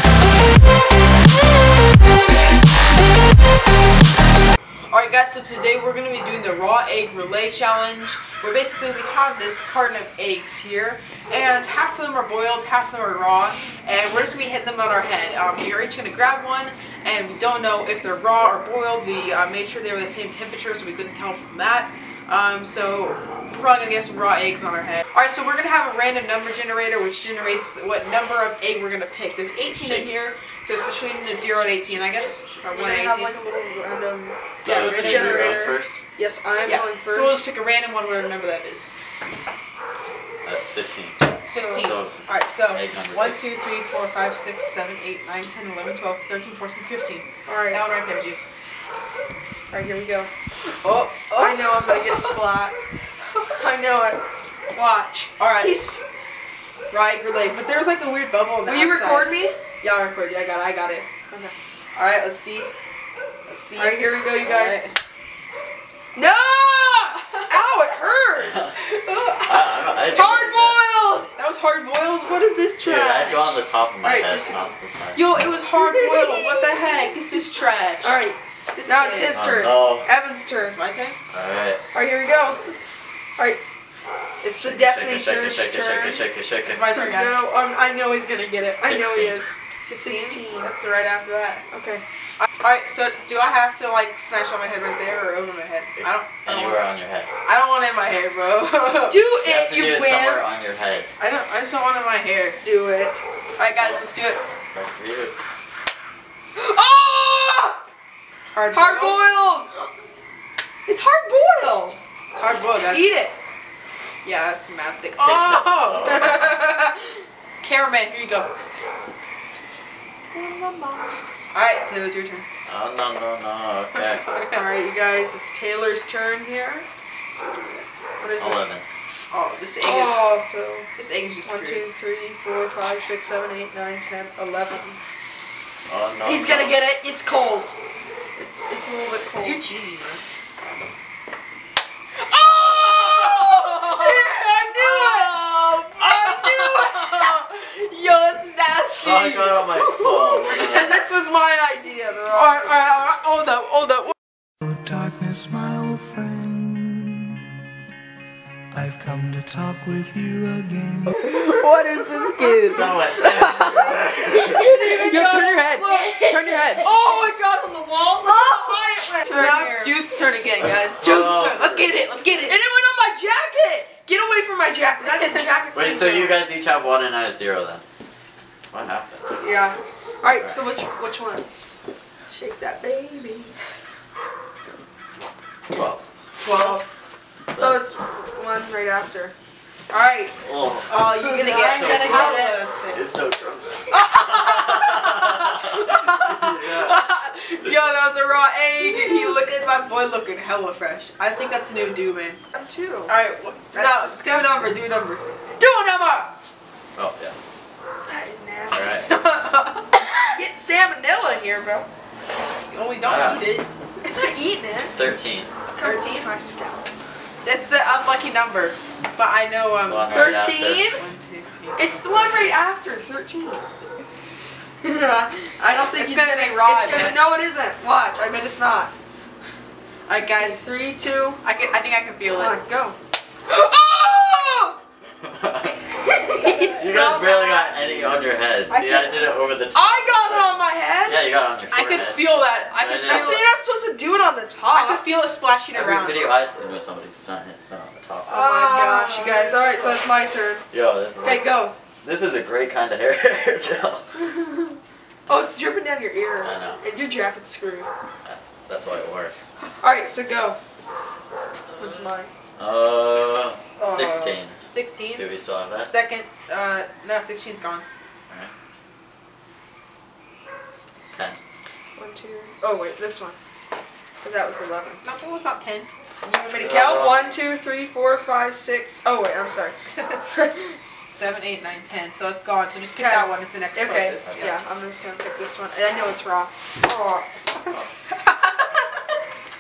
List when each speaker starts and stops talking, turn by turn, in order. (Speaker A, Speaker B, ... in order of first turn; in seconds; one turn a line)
Speaker A: 4.9-33.4
Speaker B: 29.7-30.1
Speaker B: 31.2-32.9
Speaker C: 32.6-37.4
Speaker B: 34.6-36.0
Speaker A: 34.7-35.6
Speaker A: 36.6-38.9
Speaker B: 40.4-43.4
Speaker A: 41.5-48.4
Speaker C: 41.5-42.0
Speaker C: 47.5-47.8
Speaker C: 49.7-50.3
Speaker A: 50.8-52.3
Speaker C: 51.4-52.8
Speaker C: 53.5-54.2
Speaker C: 54.7-56.0
Speaker A: 55.4-55.8
Speaker A: 56.9-61.1
Speaker C: 58.6-59.5
Speaker C: 61.3-61.5
Speaker A: 62.0-62.7
Speaker A: 63.5-64.9
Speaker C: 63.8-64.8
Speaker C: 66.1-68.8
Speaker B: 68.4-68.8
Speaker A: 68.9-70.5
Speaker B: 69.5-70.8
Speaker C: 70.1-71.3
Speaker A: 71.4-73.6
Speaker B: 72.8-75.2
Speaker C: 74.0-74.7
Speaker A: 75.2-78.2
Speaker C: 75.8-76.7
Speaker C: 78.0-80.8
Speaker A: 78.8-79.4
Speaker B: 79.3-80.1
Speaker A: 80.7-81.2
Speaker B: 81.3-81.8
Speaker C: 81.9-82.7
Speaker C: 84.4-86.2
Speaker B: 84.6-86.8
Speaker A: 86.7-87.4
Speaker C: 86.9-90.7
Speaker B: 88.8-89.5
Speaker A: 89.8-91.7
Speaker C: 91.7-92.0
Speaker A: 92.4-96.9
Speaker B: 96.0-97.3
Speaker A: 97.4-99.2
Speaker C: 99.1-100.5
Speaker B: 99.4-101.1
Speaker A: 101.2-102.6
Speaker C: 102.6-103.2
Speaker A: 103.6-104.4
Speaker B: 103.8-105.4
Speaker C: 106.6-107.8
Speaker A: 108.5-109.2
Speaker C: 108.7-109.8
Speaker C: 110.9-112.0
Speaker A: 112.3-113.1
Speaker C: 112.9-113.3
Speaker A: 114.2-116.9
Speaker B: 115.2-116.6
Speaker A: 117.6-118.5
Speaker C: 120.3-121.2
Speaker A: 121.5-122.5
Speaker B: 122.7-124.2
Speaker C: 124.3-128.6
Speaker B: 128.4-128.8
Speaker A: 129.3-130.3
Speaker C: 129.8-130.9
Speaker A: 131.0-131.8
Speaker C: 131.4-135.0
Speaker B: 135.9-136.8
Speaker C: 136.2-137.7
Speaker C: 138.4-139.6
Speaker A: 139.3-140.2
Speaker C: 142.2-145.4
Speaker A: 142.4-150.1
Speaker C: 146.0-147.3
Speaker B: 149.0-151.0
Speaker C: 150.4-152.7
Speaker A: 152.3-154.1
Speaker D: 154.6-157.4
Speaker D: 158.7-161.2
Speaker A: 161.1-166.9
Speaker C: 162.4-169.9
Speaker B: 162.7-164.5
Speaker A: 168.3-172.6
Speaker B: 171.0-172.0
Speaker C: 172.5-176.4
Speaker A: 175.0-175.4
Speaker B: 175.7-177.8
Speaker B: 178.7-179.3
Speaker C: 179.4-181.5
Speaker B: 180.3-180.6
Speaker C: 182.3-183.5
Speaker B: 185.7-186.1
Speaker A: 186.4-186.8
Speaker C: 186.5-186.8
Speaker C: 187.5-189.3
Speaker B: 187.5-187.8
Speaker C: 189.9-190.3
Speaker B: 190.4-197.1
Speaker A: 190.9-193.1
Speaker C: 191.2-192.6
Speaker A: 193.9-202.4
Speaker C: 199.0-199.3
Speaker C: 202.5-203.2
Speaker A: 203.1-205.2
Speaker C: 203.7-204.8
Speaker C: 205.6-206.3
Speaker B: 207.0-207.4
Speaker C: 208.1-209.1
Speaker B: 208.7-209.1
Speaker A: 209.0-210.1
Speaker C: 210.2-211.9
Speaker A: 212.7-214.3
Speaker B: 213.0-213.4
Speaker C: 214.1-215.0
Speaker B: 214.9-215.5
Speaker C: 215.7-216.9
Speaker A: 215.8-216.3
Speaker A: 217.4-222.1
Speaker B: 219.8-220.9
Speaker C: 220.1-221.0
Speaker C: 221.8-223.7
Speaker C: 224.8-228.9
Speaker A: 225.9-227.2
Speaker A: 230.1-230.7
Speaker C: 230.3-231.4
Speaker A: 231.4-232.6
Speaker C: 232.3-233.0
Speaker C: 233.5-234.8
Speaker B: 235.2-235.8
Speaker C: 236.2-237.7
Speaker A: 236.3-237.0
Speaker B: 236.8-243.4
Speaker A: 238.7-239.0
Speaker C: 239.7-241.2
Speaker A: 241.7-243.5
Speaker C: 243.0-245.0
Speaker A: 244.7-246.3
Speaker B: 245.7-248.5
Speaker A: 248.3-250.0
Speaker C: 248.3-250.7
Speaker B: 250.7-254.0
Speaker C: 251.2-251.8
Speaker C: 254.3-257.9
Speaker B: 256.4-256.8
Speaker B: 258.2-259.4
Speaker C: 259.7-260.6
Speaker C: 261.8-262.3
Speaker B: 262.6-264.6
Speaker A: 263.8-265.3
Speaker B: 265.1-265.9
Speaker A: 265.9-267.9
Speaker B: 271.1-271.4
Speaker C: 272.0-273.4
Speaker C: 274.2-275.0
Speaker A: 275.0-275.9
Speaker C: 276.2-280.9
Speaker B: 276.5-277.4
Speaker A: 281.1-284.6
Speaker C: 282.9-287.3
Speaker A: 288.1-288.8